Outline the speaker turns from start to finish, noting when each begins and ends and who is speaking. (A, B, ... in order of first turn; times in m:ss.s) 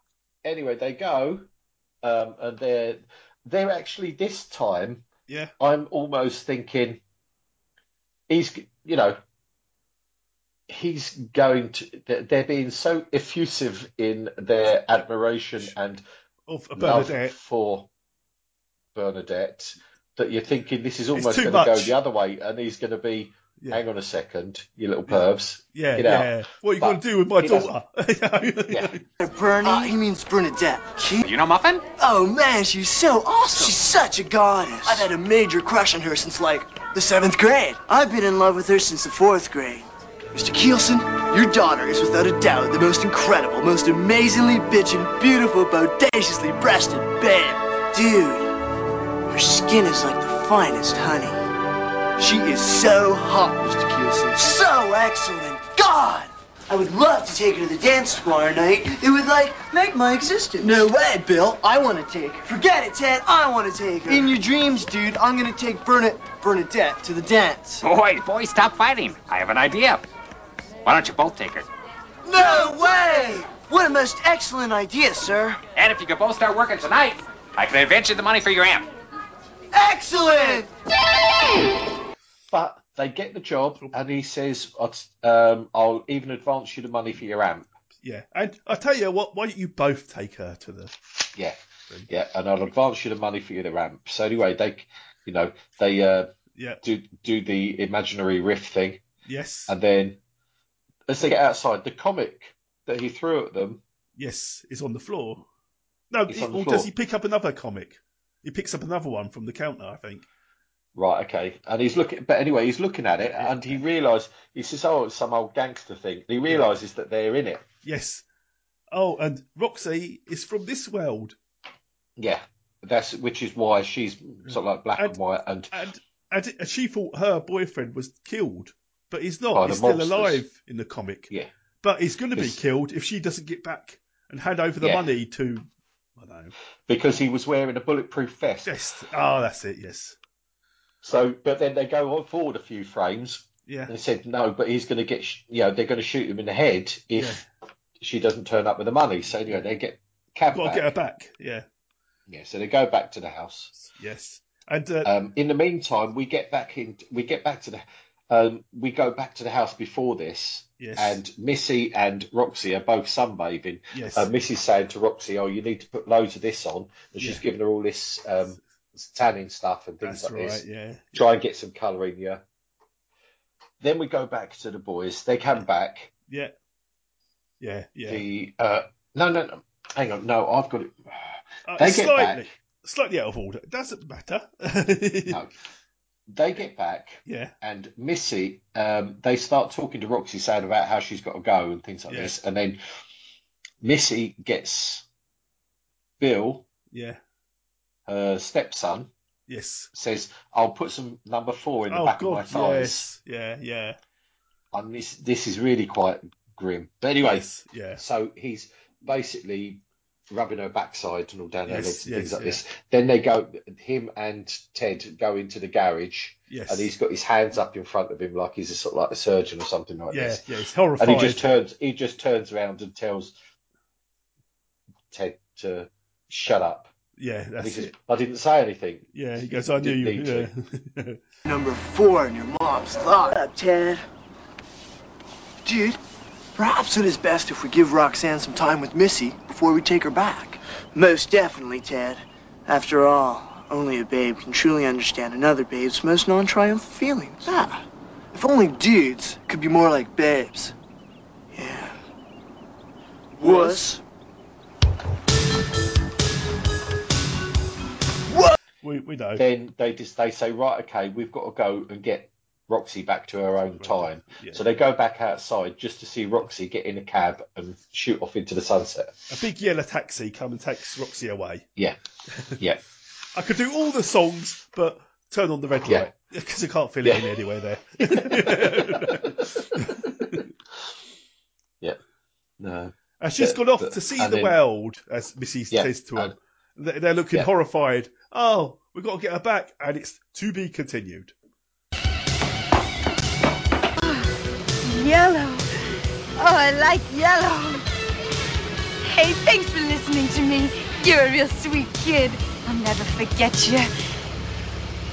0:00.4-0:01.5 A
0:02.0-0:05.0 A
0:05.3-0:05.5 B
0:05.6-0:07.0 A
0:08.3-0:09.2 A
0:10.7-0:16.0 A
0:16.5-0:17.4 B
0:16.8-0:17.9 A
0:18.9-0:27.7 A
0:21.1-0:22.0 B
0:23.6-0:23.8 B
0:25.1-0:29.0 B
0:28.7-0:29.0 A
0:29.2-0:31.2 C
0:31.2-0:31.8 D
0:32.0-0:48.5 C
0:49.3-0:51.4 C
0:52.2-1:07.8 C
1:07.8-1:10.0 D
1:10.8-1:11.7 D
1:12.2-1:15.6 C
1:15.8-1:18.9 D
1:19.7-1:20.7 C
1:22.5-1:27.7 A
1:28.0-1:30.9 B
1:32.1-1:36.3 A
1:36.6-1:36.8 B
1:36.8-1:39.0 A
1:39.2-1:39.7 B
1:39.7-1:40.2 A
1:41.1-1:43.8 A
1:44.2-1:45.4 B
1:46.1-1:50.3 B
1:46.3-1:46.9 A
1:50.9-1:57.6 A
1:53.2-1:53.8 B
1:57.8-1:58.2 B
1:58.9-2:01.4 B
2:02.2-2:05.7 A
2:04.4-2:05.2 B
2:05.7-2:11.3 B
2:09.5-2:10.4 A
2:11.8-2:15.6 B
2:14.8-2:15.1 A
2:16.2-2:16.5 B
2:16.9-2:18.7 A
2:18.6-2:20.2 B
2:21.0-2:27.4 A
2:23.6-2:23.9 B
2:27.1-2:27.4 B
2:28.0-2:30.9 A
2:30.5-2:31.6 B
2:32.3-2:33.7 A
2:33.7-2:35.1 B
2:35.0-2:50.6 A
2:40.8-2:41.2 B
2:43.9-2:44.3 B
2:50.0-2:51.2 B
2:51.1-2:52.4 A
2:53.8-2:56.1 A
2:57.6-2:58.2 B
2:58.1-3:02.5 A
3:01.7-3:05.4 B
3:06.3-3:12.8 A
3:07.2-3:07.5 B
3:12.1-3:12.3 B
3:13.8-3:15.0 A
3:16.2-3:16.6 A
3:16.9-3:17.2 B
3:18.1-3:19.1 A
3:19.5-3:19.9 B
3:19.9-3:23.1 A
3:21.9-3:24.0 B
3:24.7-3:40.4 A
3:27.2-3:28.0 B
3:31.7-3:32.6 B
3:36.5-3:36.9 B
3:40.1-3:41.4 B
3:41.0-3:43.3 A
3:45.1-3:46.9 A
3:47.2-3:47.9 B
3:47.6-3:49.1 A
3:49.1-3:51.2 B
3:49.8-3:50.5 A
3:51.4-3:54.0 C
3:55.6-3:56.0 C
3:56.6-4:10.7 C
4:11.5-4:12.0 C
4:13.4-4:14.0 C
4:18.8-4:19.4 B
4:19.4-4:29.1 A
4:23.8-4:24.6 B
4:29.3-4:31.6 B
4:32.3-4:32.6 B
4:33.3-4:40.5 B
4:35.8-4:36.1 A
4:37.0-4:37.3 A
4:38.0-4:40.4 A
4:42.6-4:44.6 A
4:43.2-4:51.3 B
4:45.7-4:46.3 A
4:54.0-4:54.3 E
4:54.8-4:55.7 E
4:56.4-4:57.8 E
4:59.0-5:03.9 E